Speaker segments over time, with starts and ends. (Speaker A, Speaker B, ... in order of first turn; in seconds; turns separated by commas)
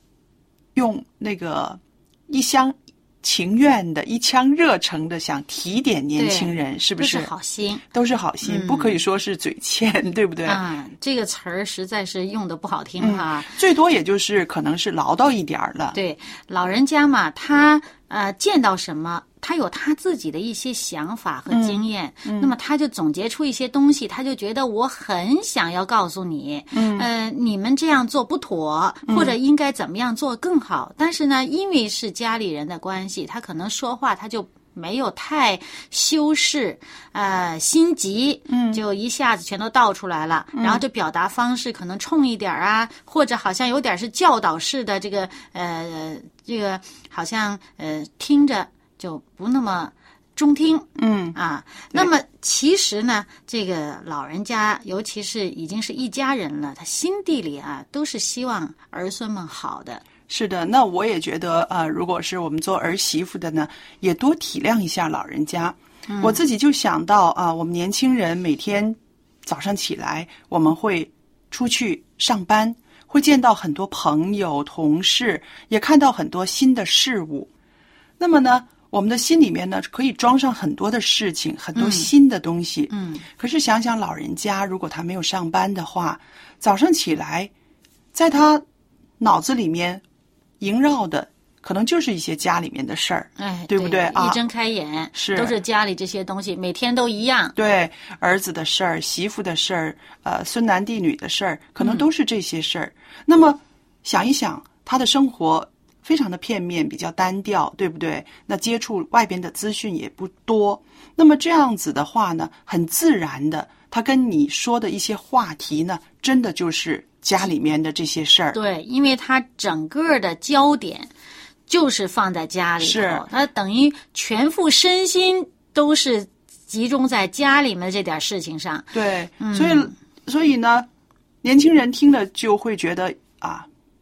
Speaker A: 0.8-7.3, Speaker B: 6.2-7.8, Speaker A: 7.9-10.6, Speaker B: 8.4-9.0, Speaker B: 10.4-13.6, Speaker A: 13.0-16.0, Speaker B: 15.9-60.0, Speaker A: 21.5-22.5, Speaker A: 26.7-27.1, Speaker A: 29.1-29.3, Speaker A: 38.5-38.8, Speaker A: 40.5-40.8, Speaker A: 51.0-51.4, Speaker A: 60.3-77.5, Speaker B: 66.1-66.4, Speaker A: 78.2-87.5, Speaker B: 81.8-82.1, Speaker B: 82.9-83.2, Speaker A: 88.1-88.6, Speaker A: 89.2-90.0, Speaker A: 90.6-94.4, Speaker B: 93.4-97.5, Speaker A: 95.2-95.6, Speaker A: 97.5-118.6, Speaker B: 101.8-102.1, Speaker B: 118.5-121.1, Speaker B: 121.7-129.9, Speaker A: 122.8-123.2, Speaker A: 128.9-130.9, Speaker A: 131.4-133.7